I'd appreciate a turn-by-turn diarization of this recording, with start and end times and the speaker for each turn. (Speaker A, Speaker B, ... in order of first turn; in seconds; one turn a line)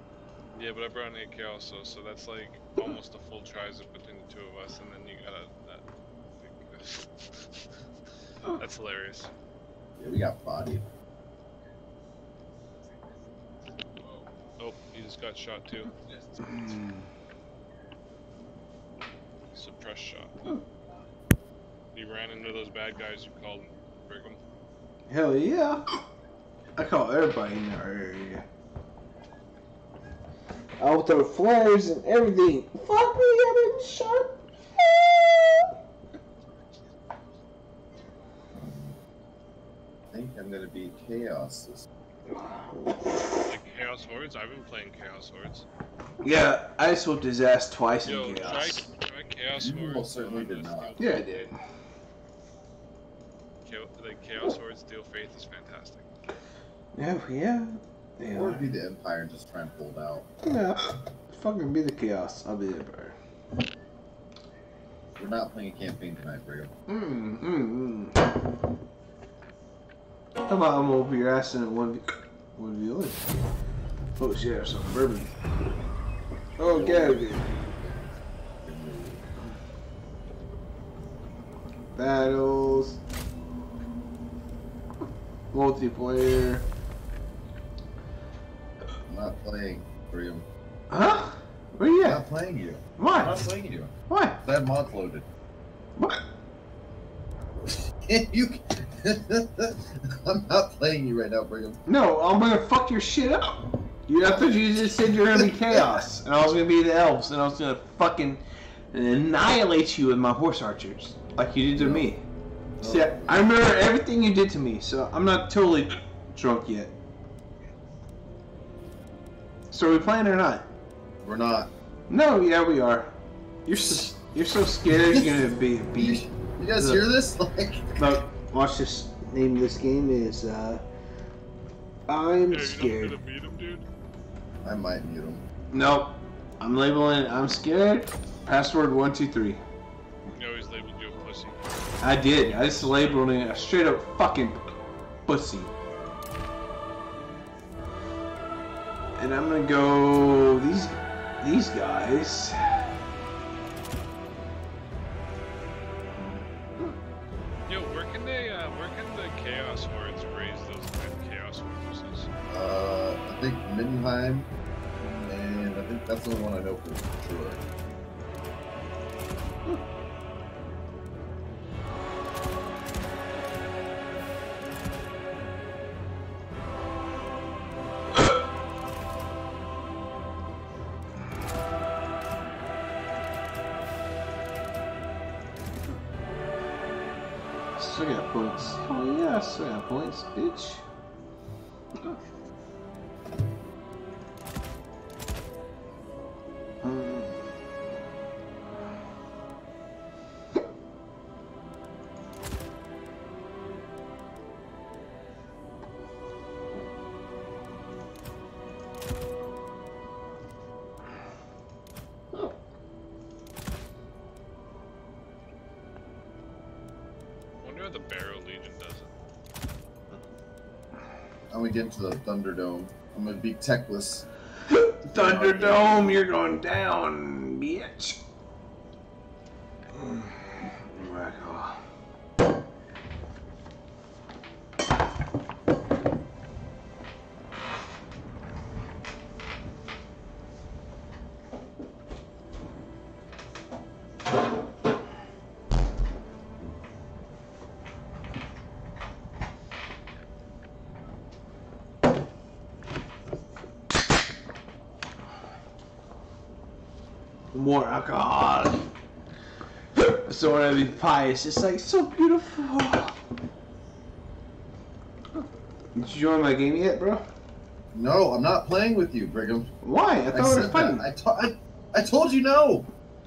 Speaker A: 0.5-5.8
Speaker A: 6.4-7.5
Speaker A: 8.5-9.3
Speaker B: 10.0-10.9
Speaker A: 14.0-15.9
Speaker C: 16.4-17.1
Speaker A: 19.5-20.6
Speaker A: 21.9-24.4
Speaker C: 25.1-26.0
Speaker C: 26.8-28.4
Speaker C: 30.8-35.7
Speaker B: 38.5-39.0
Speaker B: 40.1-41.8
Speaker C: 42.3-43.0
Speaker A: 43.4-45.6
Speaker C: 46.2-48.9
Speaker A: 48.0-51.2
Speaker B: 49.5-51.0
Speaker C: 51.0-51.5
Speaker A: 53.6-56.1
Speaker C: 56.9-58.7
Speaker B: 58.3-60.2
Speaker C: 60.4-63.1
Speaker B: 65.2-66.7
Speaker C: 66.9-68.2
Speaker C: 70.5-73.3
Speaker C: 74.2-75.3
Speaker C: 76.6-77.6
Speaker B: 76.6-79.2
Speaker C: 81.9-83.0
Speaker C: 85.5-86.6
Speaker B: 89.1-90.4
Speaker C: 90.9-92.2
Speaker B: 92.0-95.3
Speaker C: 93.0-93.5
Speaker C: 94.1-94.4
Speaker C: 96.0-96.2
Speaker B: 98.0-101.8
Speaker C: 101.8-112.2
Speaker B: 105.4-106.0
Speaker B: 111.8-112.1
Speaker B: 112.8-113.5
Speaker C: 112.8-116.9
Speaker C: 119.7-120.7
Speaker B: 121.2-121.7
Speaker C: 122.1-123.1
Speaker C: 123.7-127.1
Speaker B: 123.8-124.1
Speaker B: 125.1-125.3
Speaker B: 125.9-128.1
Speaker C: 128.0-130.8
Speaker C: 132.1-133.2
Speaker A: 132.5-133.8
Speaker B: 134.6-135.4
Speaker C: 135.7-139.6
Speaker A: 140.3-143.3
Speaker C: 142.0-144.6
Speaker C: 145.3-145.7
Speaker C: 149.2-152.9
Speaker C: 156.2-156.9
Speaker A: 157.7-162.3
Speaker B: 162.5-164.5
Speaker C: 165.0-165.3
Speaker B: 165.2-167.6
Speaker C: 187.8-190.8
Speaker C: 196.8-197.8
Speaker A: 217.6-219.1
Speaker B: 221.5-224.2
Speaker C: 224.7-228.2
Speaker B: 225.1-226.2
Speaker C: 229.9-231.8
Speaker C: 257.5-258.9
Speaker C: 259.9-263.2
Speaker C: 265.3-267.2
Speaker B: 267.9-269.7
Speaker C: 269.8-271.0
Speaker B: 270.3-272.9